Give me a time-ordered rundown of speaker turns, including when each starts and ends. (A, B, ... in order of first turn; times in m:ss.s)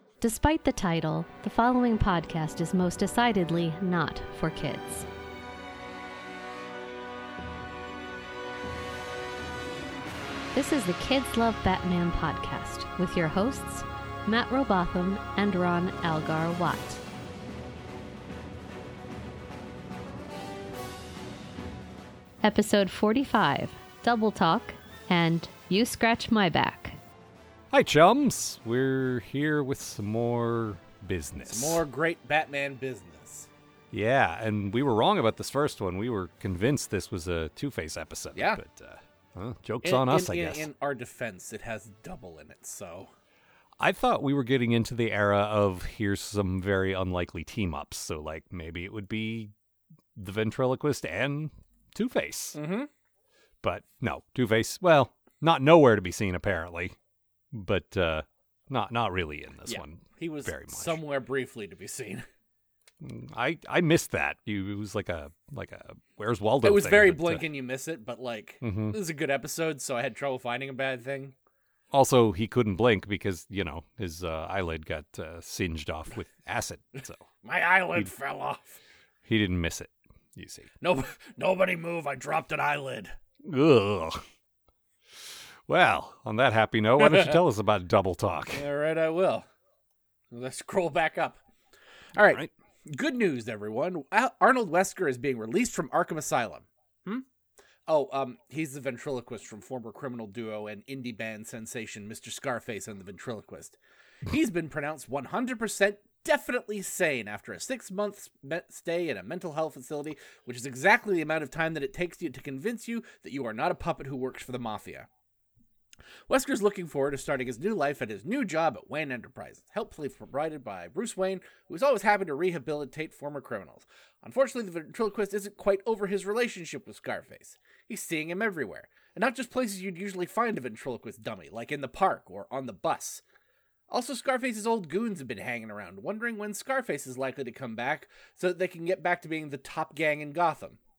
0:00.2-0:05.1 A
0:10.5-0:17.0 A
0:22.4-0:27.0 A
0:27.7-0:31.8 B
0:31.4-0:33.5 C
0:33.9-0:40.7 B
0:38.3-0:38.6 C
0:39.8-0:43.1 C
0:43.8-0:49.5 B
0:50.1-0:52.6 B
0:52.5-0:52.9 C
0:53.6-0:57.0 B
0:57.5-1:01.0 B
0:59.6-1:02.2 C
1:03.0-1:07.4 B
1:06.6-1:11.3 C
1:08.6-1:09.0 B
1:11.9-1:17.2 B
1:17.4-1:18.8 C
1:19.2-1:20.7 B
1:20.8-1:23.1 C
1:23.4-1:24.2 B
1:25.7-1:28.6 B
1:27.0-1:27.4 C
1:28.5-1:29.5 C
1:30.3-1:31.4 C
1:32.1-1:37.2 C
1:37.9-1:55.1 C
1:56.3-2:13.2 C
2:13.9-2:20.8 C